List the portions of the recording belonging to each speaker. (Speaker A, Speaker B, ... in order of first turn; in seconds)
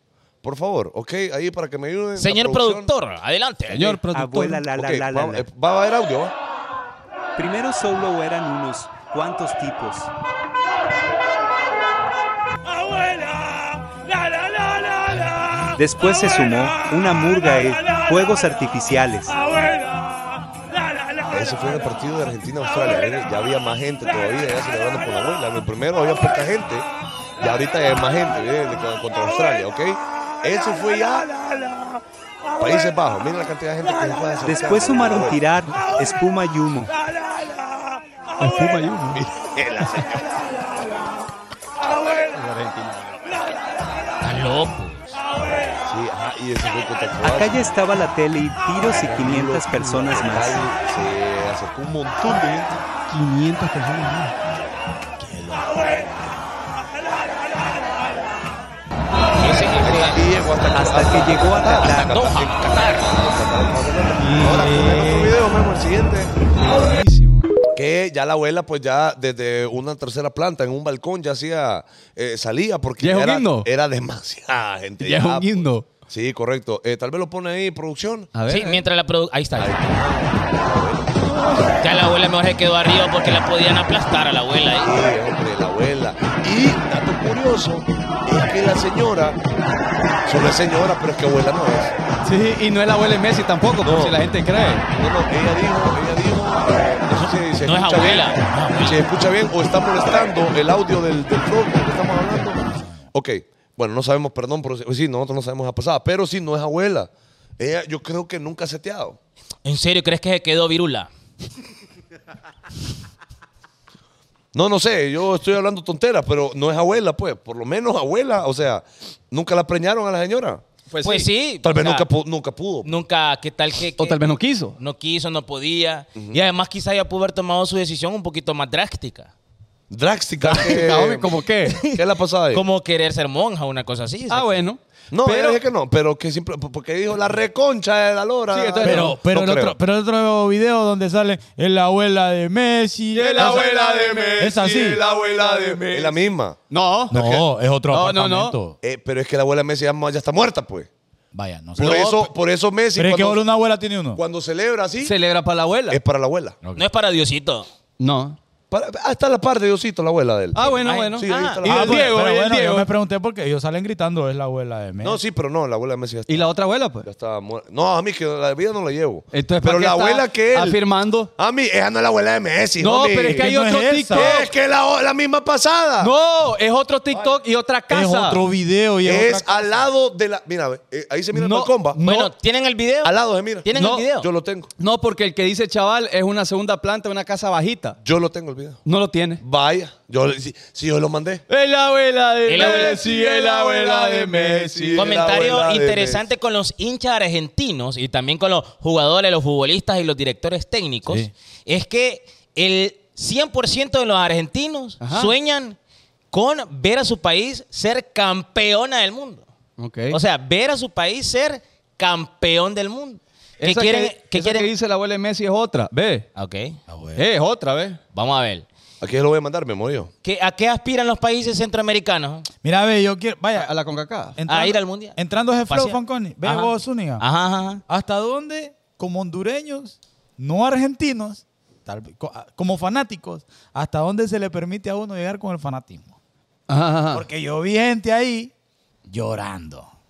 Speaker A: 0.4-2.9, 4.7-6.3, 21.3-26.9, 27.4-31.4, 32.6-35.4, 39.1-40.7, 45.8-47.7, 48.8-52.7, 59.8-66.3, 67.7-78.3, 79.6-81.1, 84.8-89.4, 90.2-91.9, 93.8-94.2, 94.9-102.6, 103.1-109.2, 114.5-120.6, 121.6-122.9, 129.9-132.6, 135.1-139.7, 143.3-146.6, 147.1-147.4, 148.8-150.9, 151.8-153.4, 154.1-155.1, 155.9-156.6, 158.7-162.1, 165.0-166.5, 167.0-170.8, 171.3-173.5, 174.1-176.1, 179.0-182.0, 183.0-184.7, 188.0-188.8, 189.4-191.4, 192.5-196.2, 219.0-220.1
Speaker B: 2.2-4.0, 15.2-15.7, 44.2-45.1, 59.4-60.3, 61.8-63.1, 78.5-80.0, 81.8-85.1, 97.2-99.0, 109.6-111.1, 121.0-122.1, 122.8-124.2, 124.8-129.3, 132.5-134.6, 151.8-152.1, 156.7-157.7, 161.3-161.7, 181.9-184.3, 192.5-193.0, 194.9-205.8, 206.3-209.4, 210.1-214.7, 216.3-216.8, 218.1-218.7, 220.2-222.5, 224.5-225.2, 225.7-227.8
Speaker C: 3.7-4.7, 38.4-39.3, 42.3-43.4, 53.1-54.4, 64.2-65.3, 66.6-67.5, 73.0-73.7, 75.0-75.9, 78.3-78.8, 92.2-94.9, 120.9-121.3, 124.0-124.8, 130.4-131.8, 134.3-135.6, 138.5-139.2, 143.1-147.2, 147.9-148.6, 155.0-156.0, 158.0-158.4, 160.5-162.9, 166.3-167.1, 169.3-171.3, 172.8-174.5, 176.0-178.4, 181.3-182.3, 183.7-184.1, 184.8-188.0, 188.8-189.4, 191.5-195.4, 205.0-205.3, 209.8-210.2, 213.6-216.2, 217.2-218.0, 223.5-224.4, 236.7-237.2
Speaker D: 4.0-5.5, 7.3-10.1, 15.7-19.4, 34.4-36.9, 47.2-50.6, 60.7-62.2
Speaker E: 55.2-55.9, 64.8-65.2, 102.6-103.0, 138.8-143.7, 144.4-145.0, 147.1-148.8, 151.3-152.3, 152.9-154.2, 160.8-165.2, 173.2-174.4, 177.9-179.9, 216.9-217.2, 222.6-223.7, 224.4-227.2, 227.9-236.1, 237.1-238.5, 239.1-239.9